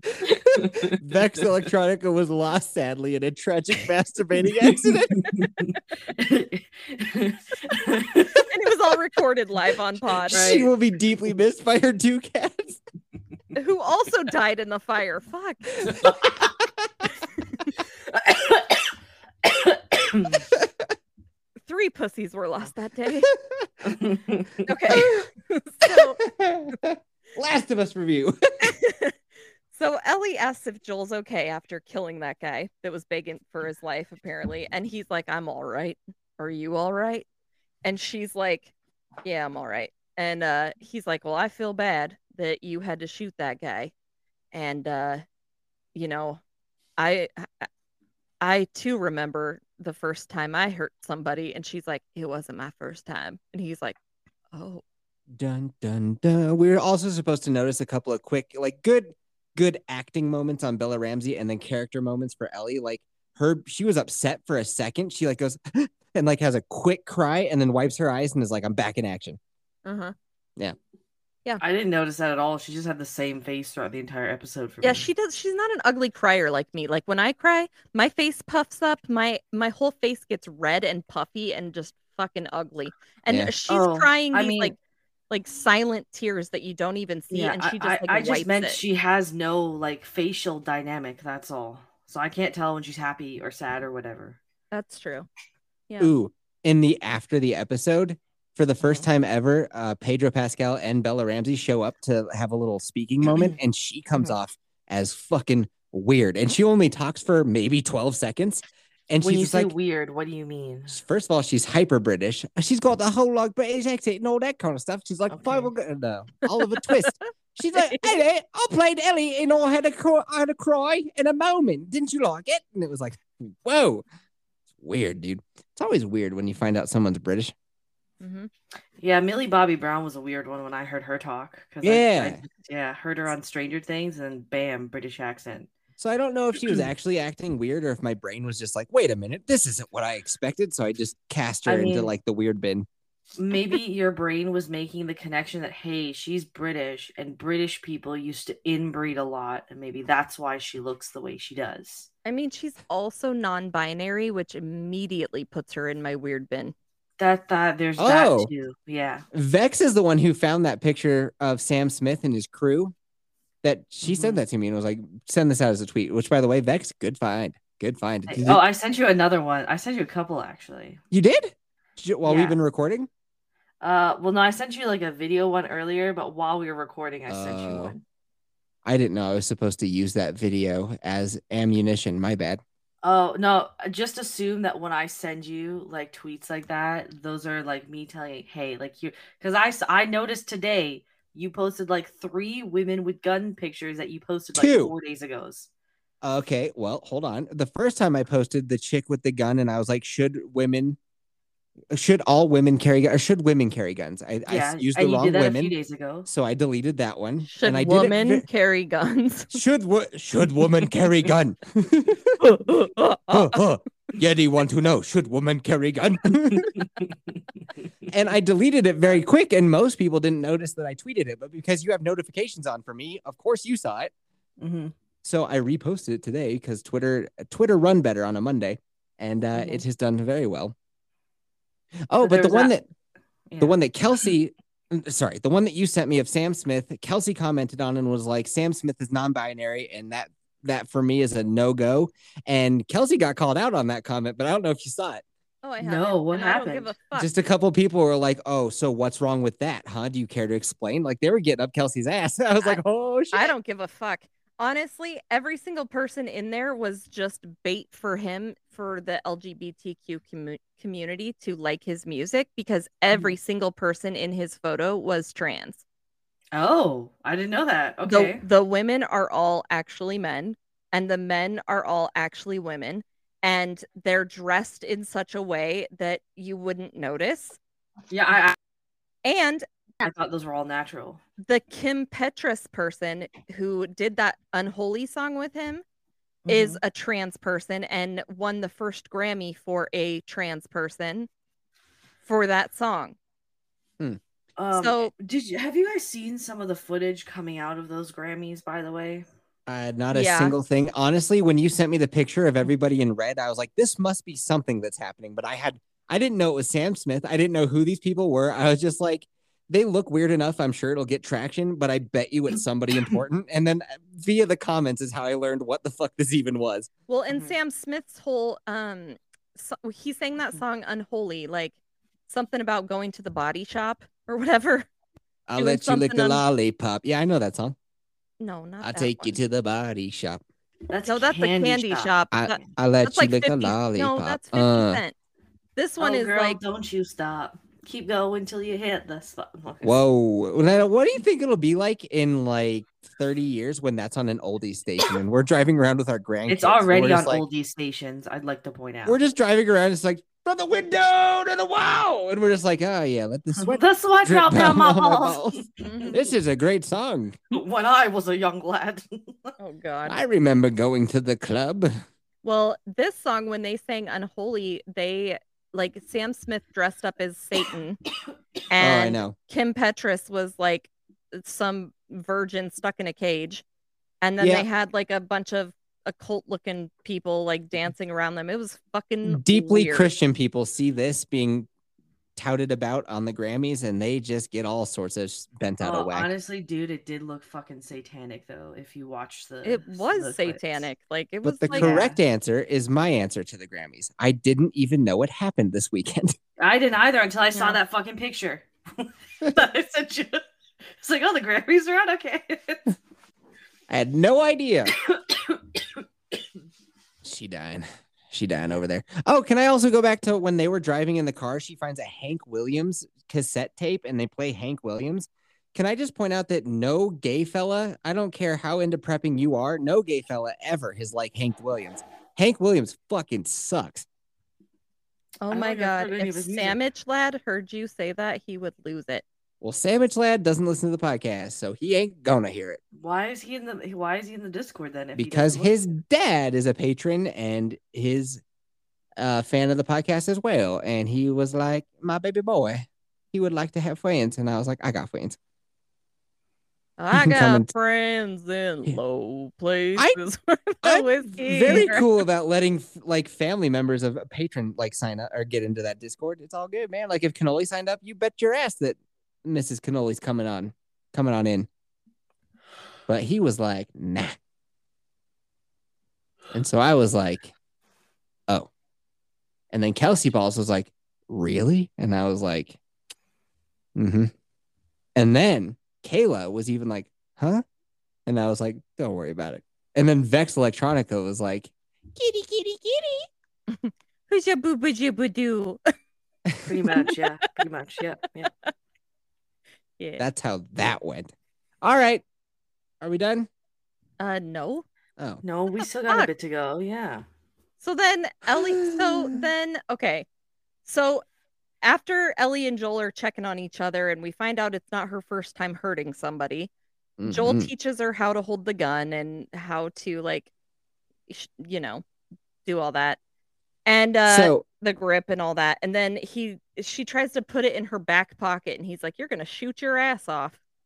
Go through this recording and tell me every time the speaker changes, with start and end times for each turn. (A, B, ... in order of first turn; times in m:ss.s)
0:00.2-0:05.3 A
0:00.5-0:01.0 B
0:05.2-0:08.5 B
0:08.5-0:10.5 C
0:10.3-0:10.7 B
0:10.3-0:12.8 A
0:13.6-0:15.8 C
0:18.1-0:18.9 B
0:19.4-0:20.4 B
0:21.7-0:23.3 C
0:23.8-0:24.6 B
0:24.7-0:26.2 C
0:25.0-0:25.2 A
0:25.9-0:28.7 A
0:28.6-0:29.1 C
0:29.7-0:37.3 C
0:37.8-0:38.7 C
0:39.2-0:43.9 C
0:44.5-0:45.2 C
0:46.0-0:46.4 C
0:47.0-0:47.7 C
0:48.4-0:54.0 C
0:54.5-0:54.8 C
0:55.3-1:09.4 A
1:09.8-1:10.2 C
1:11.6-1:15.1 B
1:14.8-1:24.8 C
1:23.3-1:23.5 A
1:23.7-1:24.8 B
1:25.3-1:28.8 C
1:27.3-1:34.4 B
1:34.7-1:35.3 C
1:36.0-1:49.7 A
1:38.8-1:39.1 B
1:43.3-1:43.6 B
1:49.2-1:51.0 B
1:50.9-2:04.0 A
1:55.3-1:55.7 B
2:04.8-2:07.5 A
2:08.2-2:08.5 C
2:09.0-2:15.7 B
2:11.8-2:12.4 A
2:16.0-2:22.9 A
2:21.7-2:22.1 B
2:23.4-2:32.1 B
2:32.2-2:36.8 C
2:37.2-2:39.2 B
2:38.0-2:38.5 A
2:39.3-2:42.9 A
2:43.6-2:48.6 A
2:44.0-2:44.4 B
2:48.3-2:51.0 B
2:51.1-2:53.1 A
2:52.2-2:52.6 B
2:53.8-2:58.0 B
2:57.3-2:58.0 A
2:58.8-3:02.6 A
3:03.0-3:15.7 B
3:14.6-3:14.9 A
3:16.2-3:21.0 A
3:21.9-3:25.7 A
3:24.5-3:26.3 B
3:26.3-3:28.4 A
3:27.5-3:29.6 C
3:29.5-3:32.4 A
3:32.4-3:33.6 C
3:33.3-3:36.7 A
3:38.1-3:44.1 A
3:44.6-3:44.9 B
3:45.2-3:50.8 A
3:49.6-3:49.8 B
3:52.1-3:52.9 A
3:52.2-3:52.7 B
3:53.5-3:53.8 B
3:53.6-4:05.2 A
4:05.6-4:07.3 C
4:05.8-4:06.9 B
4:07.2-4:13.5 A
4:13.3-4:25.8 C
4:26.5-4:28.4 B
4:28.1-4:37.6 C
4:38.1-4:38.6 B
4:39.2-4:39.6 C
4:40.0-4:41.2 B
4:41.4-4:45.8 C
4:46.4-4:46.8 B
4:46.5-4:51.3 C
4:52.2-4:53.2 C
4:54.6-4:59.3 B
4:54.8-4:55.1 C
4:59.7-5:16.9 A
5:00.1-5:00.6 C
5:17.1-5:21.8 C
5:17.3-5:17.6 B
5:22.3-5:24.9 C
5:25.5-5:27.8 A
5:25.6-5:26.4 C
5:28.4-5:29.4 C
5:28.8-5:30.4 A
5:30.9-5:32.1 B
5:31.1-5:35.2 C
5:32.3-5:35.0 A
5:35.8-5:36.6 C
5:36.0-5:40.0 B
5:39.8-5:47.4 A
5:46.5-5:49.2 B
5:49.1-5:57.4 A
5:53.6-5:56.3 B
5:55.8-5:56.2 C
5:57.5-5:59.6 B
5:59.6-6:00.2 C
6:00.1-6:01.9 A
6:02.4-6:08.0 C
6:08.7-6:13.6 C
6:08.8-6:09.4 A
6:14.2-6:20.1 C
6:14.4-6:14.7 A
6:19.3-6:21.7 A
6:22.4-6:26.3 A
6:25.8-6:30.9 B
6:29.6-6:31.9 C
6:31.4-6:36.4 A
6:31.7-6:32.2 B
6:36.6-6:40.4 B
6:41.0-6:42.8 B
6:43.9-6:45.0 A
6:45.1-6:45.6 B
6:47.2-7:04.1 A
7:05.4-7:09.2 C
7:05.5-7:06.8 B
7:09.6-7:12.8 A
7:12.9-7:15.7 B
7:15.2-7:18.4 A
7:19.2-7:25.4 A
7:27.0-7:32.1 C
7:27.1-7:27.7 A
7:30.8-7:41.7 A
7:43.1-7:44.4 A
7:46.5-7:47.5 A
7:49.7-7:52.8 A
7:54.0-7:54.3 A
7:55.2-7:57.6 A
7:58.3-8:03.3 A
8:03.7-8:05.8 C
8:06.6-8:08.4 B
8:08.4-8:08.7 C
8:10.0-8:10.2 C
8:10.2-8:12.2 A
8:13.0-8:13.5 A
8:14.2-8:14.8 C
8:15.4-8:17.2 B
8:17.8-8:20.3 C
8:18.8-8:19.3 A
8:20.8-8:21.2 C
8:21.8-8:26.7 C
8:27.2-8:27.7 A
8:27.2-8:30.5 C
8:31.3-8:32.0 C
8:32.7-8:33.2 C
8:33.9-8:40.6 C
8:34.2-8:34.6 A